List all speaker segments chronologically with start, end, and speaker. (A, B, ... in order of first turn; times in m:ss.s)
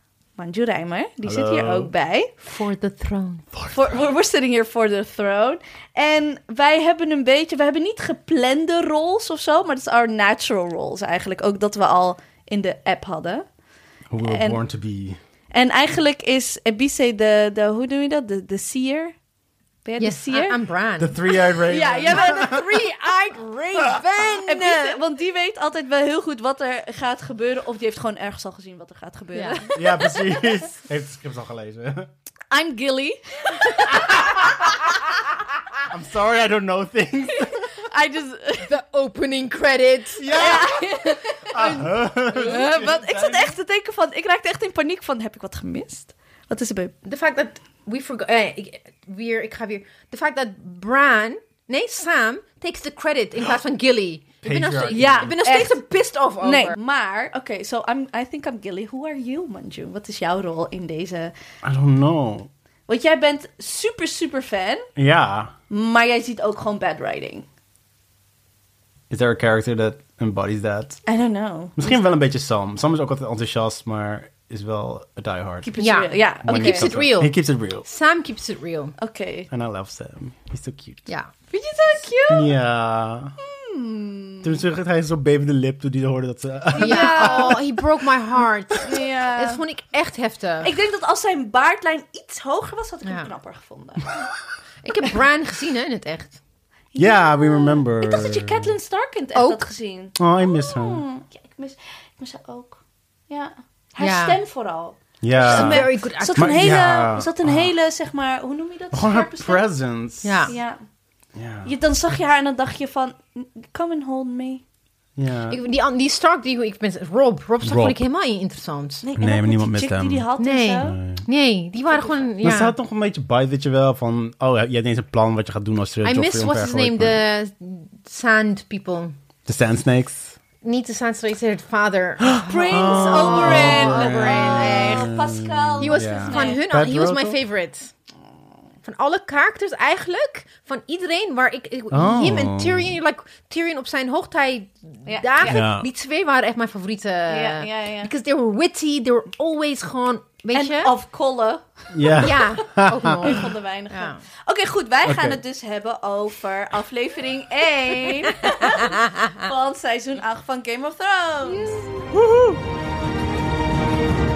0:00.4-0:02.3 A
0:01.2-0:01.9 B
0:02.4-0:03.5 C
0:03.7-0:13.5 A
0:14.1-0:15.2 B
0:14.2-0:14.6 A
0:15.5-0:19.2 A
0:19.8-0:20.6 A
0:20.0-0:25.0 C
0:21.0-0:22.7 B
0:21.7-0:22.8 A
0:24.5-0:30.5 A
0:29.3-0:29.6 C
0:29.8-0:32.1 B
0:32.5-0:34.1 A
0:33.9-0:34.6 B
0:35.9-0:37.7 B
0:37.8-0:38.7 A
0:38.6-0:41.1 C
0:40.2-0:40.8 B
0:40.4-0:46.9 A
0:41.5-0:43.6 B
0:47.0-0:56.8 C
0:54.4-0:55.3 B
0:54.9-0:55.8 A
0:56.4-1:01.3 A
1:01.6-1:02.5 B
1:02.9-1:04.9 A
1:05.0-1:05.5 B
1:05.7-1:07.5 A
1:09.1-1:11.0 B
1:11.1-1:11.9 A
1:11.8-1:15.7 B
1:15.6-1:16.9 A
1:15.8-1:19.0 C
1:16.4-1:17.8 B
1:19.0-1:19.5 A
1:19.5-1:21.1 B
1:21.1-1:21.3 C
1:21.5-1:22.5 A
1:22.3-1:23.3 B
1:23.4-1:24.6 A
1:24.4-1:27.6 B
1:26.7-1:27.6 A
1:26.8-1:30.7 C
1:28.8-1:29.6 A
1:30.6-1:34.1 A
1:33.0-1:33.3 C
1:34.8-1:36.4 C
1:36.9-1:49.7 A
1:37.0-1:38.7 B
1:39.4-1:39.7 C
1:40.2-1:41.0 B
1:44.0-1:44.4 C
1:45.2-1:47.7 B
1:45.4-1:46.8 C
1:48.9-1:50.5 B
1:50.2-1:50.5 C
1:50.5-1:50.8 A
1:51.4-1:51.7 B
1:51.6-1:54.6 A
1:55.2-1:55.6 B
1:55.5-1:59.0 C
1:57.6-1:58.0 B
1:59.0-2:01.0 A
1:59.2-2:00.3 B
2:00.4-2:02.8 C
2:00.8-2:01.2 B
2:02.4-2:07.2 B
2:06.0-2:09.1 C
2:09.5-2:10.4 B
2:10.6-2:15.2 C
2:12.3-2:17.4 B
2:12.4-2:16.6 A
2:15.8-2:17.9 C
2:18.8-2:30.9 C
2:21.9-2:22.9 B
2:25.1-2:25.6 A
2:25.5-2:25.9 B
2:27.3-2:28.1 A
2:30.5-2:32.4 A
2:31.9-2:33.3 B
2:32.2-2:34.2 C
2:33.1-2:41.8 A
2:35.0-2:35.4 B
2:38.6-2:39.3 C
2:41.6-2:41.8 C
2:42.1-2:42.6 B